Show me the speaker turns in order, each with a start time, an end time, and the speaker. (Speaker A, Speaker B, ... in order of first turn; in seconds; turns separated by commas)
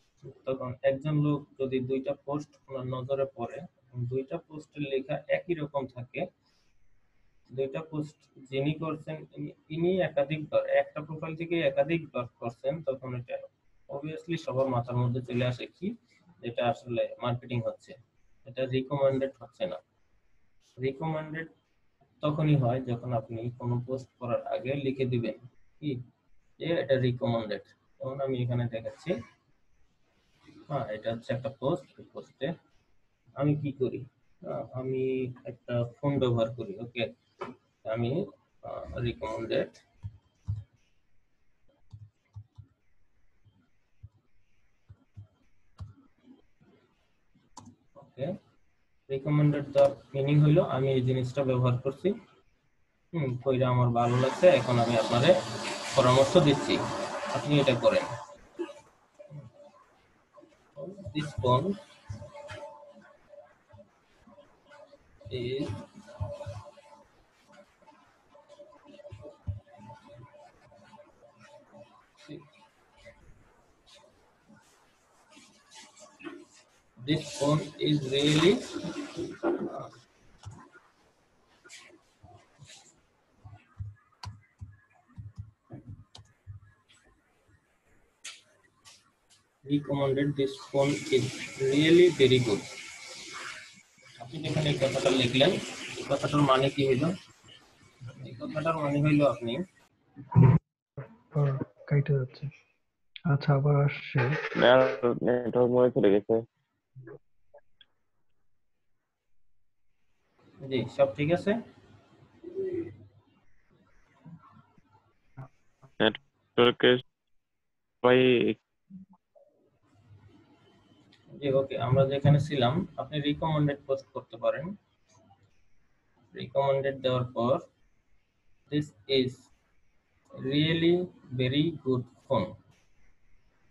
Speaker A: 0.3-6.2, Speaker A: 7.5-19.8, Speaker A: 20.8-21.5, Speaker A: 22.2-26.0, Speaker A: 26.6-29.1, Speaker A: 30.7-32.5, Speaker A: 33.4-37.1, Speaker A: 37.9-39.8, Speaker A: 48.0-48.3, Speaker A: 49.1-52.1, Speaker A: 53.1-55.3, Speaker A: 55.9-58.1, Speaker A: 60.8-61.7, Speaker A: 65.3-66.3, Speaker A: 77.0-79.8, Speaker A: 89.7-92.7, Speaker A: 94.2-97.1, Speaker A: 98.2-99.6, Speaker B: 101.3-102.5, Speaker B: 103.3-104.3, Speaker C: 104.6-106.4, Speaker A: 110.7-111.5, Speaker C: 116.0-117.0, Speaker C: 118.0-118.6, Speaker A: 121.4-124.7, Speaker A: 126.3-127.6, Speaker A: 128.7-129.4, Speaker A: 130.4-132.5